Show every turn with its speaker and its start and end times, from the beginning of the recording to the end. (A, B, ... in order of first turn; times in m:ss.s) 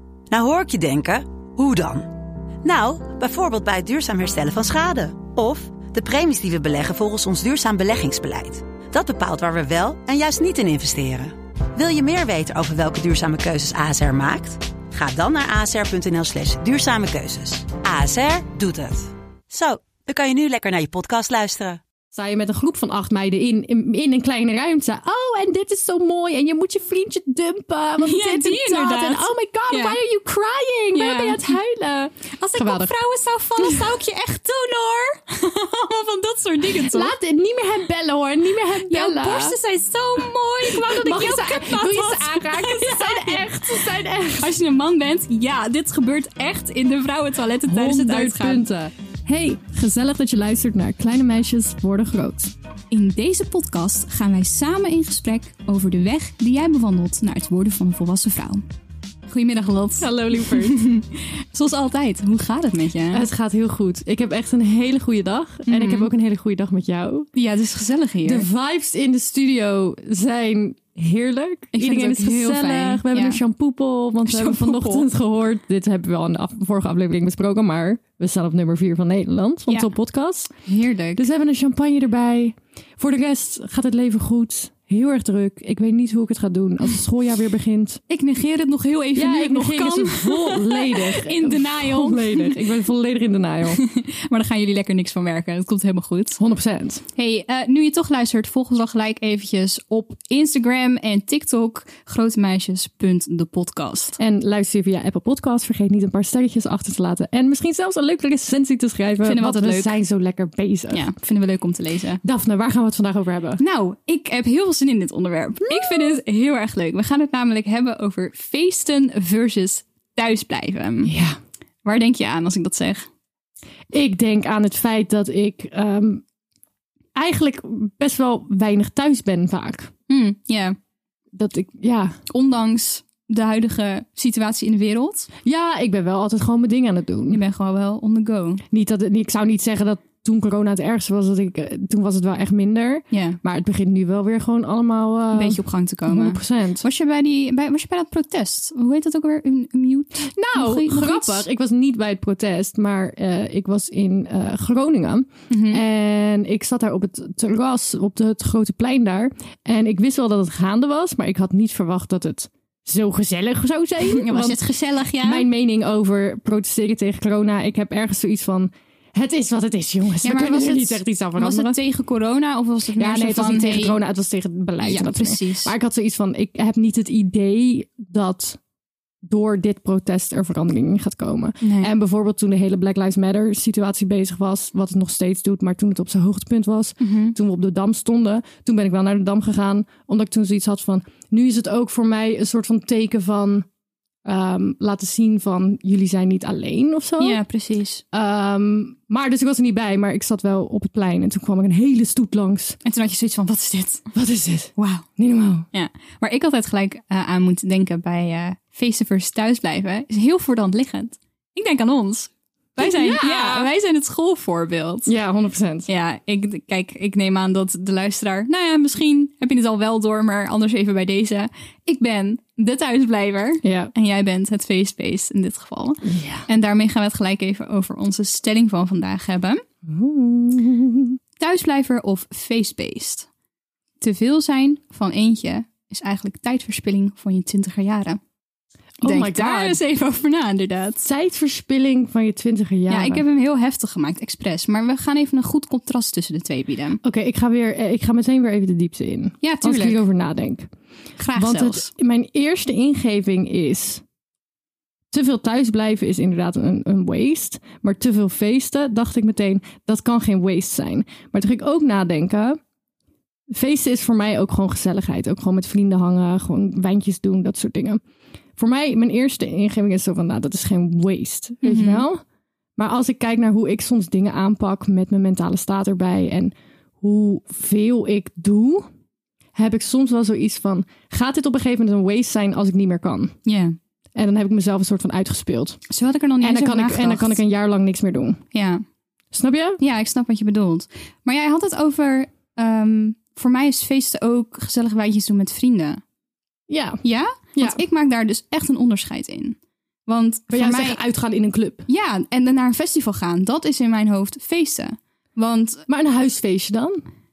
0:00.3-0:02.1 A
0:02.6-0:21.8 A
0:22.1-0:33.0 B
0:28.0-0:30.0 C
0:30.9-0:31.6 C
0:32.4-0:37.1 C
0:33.6-0:33.9 B
0:36.8-0:39.6 B
0:38.8-0:48.7 C
0:40.6-0:44.6 B
0:47.7-0:52.5 B
0:52.9-0:58.6 C
0:59.3-1:03.3 C
1:00.0-1:00.8 B
1:03.1-1:07.3 B
1:05.7-1:06.1 C
1:07.3-1:08.5 C
1:08.2-1:20.5 B
1:11.7-1:13.4 C
1:14.2-1:15.1 C
1:20.7-1:21.3 C
1:21.2-1:28.0 B
1:28.1-1:32.6 C
1:29.2-1:33.8 B
1:33.7-1:36.4 C
1:36.4-1:37.0 B
1:37.2-1:44.2 C
1:44.2-1:51.1 B
1:49.2-1:50.0 C
1:50.9-1:52.2 C
1:52.2-1:53.6 B
1:53.6-2:01.1 C
1:55.7-1:56.2 B
2:01.0-2:01.4 B
2:01.8-2:03.1 C
2:03.9-2:06.2 B
2:07.2-2:09.9 B
2:10.1-2:10.8 C
2:11.3-2:12.2 B
2:12.3-2:15.3 C
2:15.4-2:17.4 B
2:17.3-2:18.6 C
2:18.7-2:26.8 B
2:23.1-2:23.4 C
2:25.3-2:31.5 C
2:30.4-2:44.6 B
2:35.5-2:35.8 C
2:44.0-2:45.5 C
2:45.2-2:51.8 B
2:50.2-2:54.0 C
2:53.0-2:58.6 B
2:54.8-2:55.7 C
2:59.2-3:13.7 B
3:01.6-3:01.9 C
3:07.0-3:07.4 C
3:14.2-3:17.4 B
3:17.2-3:18.0 C
3:18.1-3:22.8 B
3:22.8-3:24.0 C
3:24.1-3:25.7 B
3:24.8-3:25.1 C
3:25.7-3:35.1 C
3:32.8-3:33.7 B
3:35.1-3:35.9 B
3:35.9-3:49.6 C
3:43.6-3:43.9 B
3:46.0-3:46.5 B
3:49.9-3:51.2 B
3:51.4-3:53.3 C
3:54.0-3:58.2 C
3:59.0-3:59.8 B
3:59.0-4:01.0 C
4:01.0-4:03.2 B
4:02.9-4:07.0 C
4:07.0-4:10.7 B
4:09.4-4:10.0 C
4:11.2-4:11.9 C
4:11.4-4:14.0 B
4:15.1-4:22.6 B
4:23.5-4:28.0 B
4:28.6-4:32.2 B
4:31.6-4:32.1 C
4:32.8-4:38.9 B
4:39.6-4:43.3 B
4:43.5-4:43.8 C
4:44.2-4:45.8 B
4:45.9-4:47.4 C
4:46.4-4:48.4 B
4:48.5-4:48.8 C
4:49.3-4:49.8 B
4:49.8-4:56.0 C
4:56.7-4:57.0 B
4:57.0-5:01.0 C
5:00.5-5:01.9 B
5:01.9-5:05.9 C
5:05.9-5:07.0 B